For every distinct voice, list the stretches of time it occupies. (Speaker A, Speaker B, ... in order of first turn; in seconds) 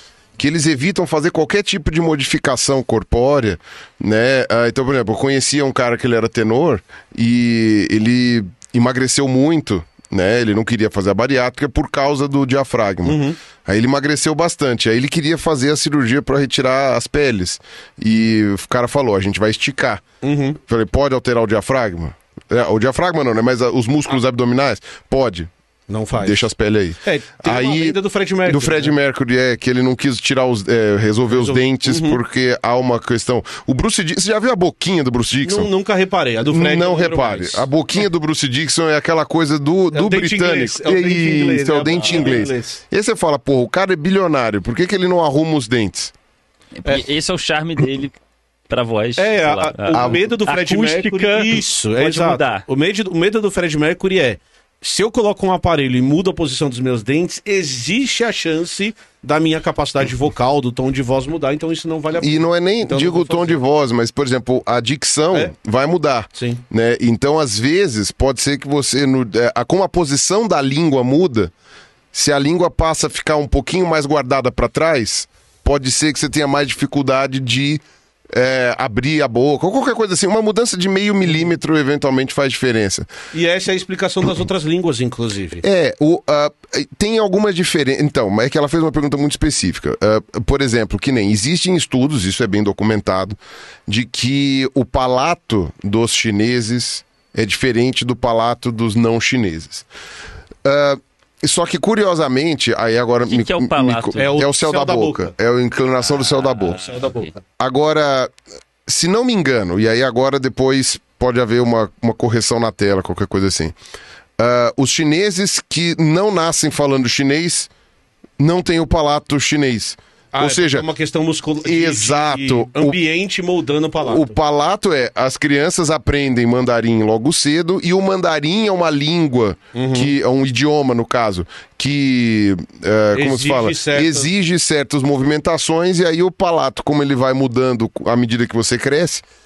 Speaker A: 0.4-20.1, 20.7-25.5, 26.2-35.7, 36.4-46.1, 49.9-50.2, 62.2-71.5, 72.1-83.1, 85.6-99.8, 100.6-106.9, 107.6-108.3, 108.8-113.7, 114.4-117.7, 118.4-120.9, 121.6-123.0, 124.0-139.2
Speaker B: 13.0-13.4, 20.2-20.6, 25.9-26.5, 27.0-28.9, 31.3-32.2, 35.4-37.6, 39.9-42.8, 49.2-63.6, 66.3-66.6, 83.3-85.6, 104.2-105.3, 106.8-107.3, 120.3-124.3, 129.7-130.1, 133.1-134.3
Speaker C: 42.0-42.4, 46.8-48.1, 48.7-52.6, 103.3-104.3, 106.2-107.3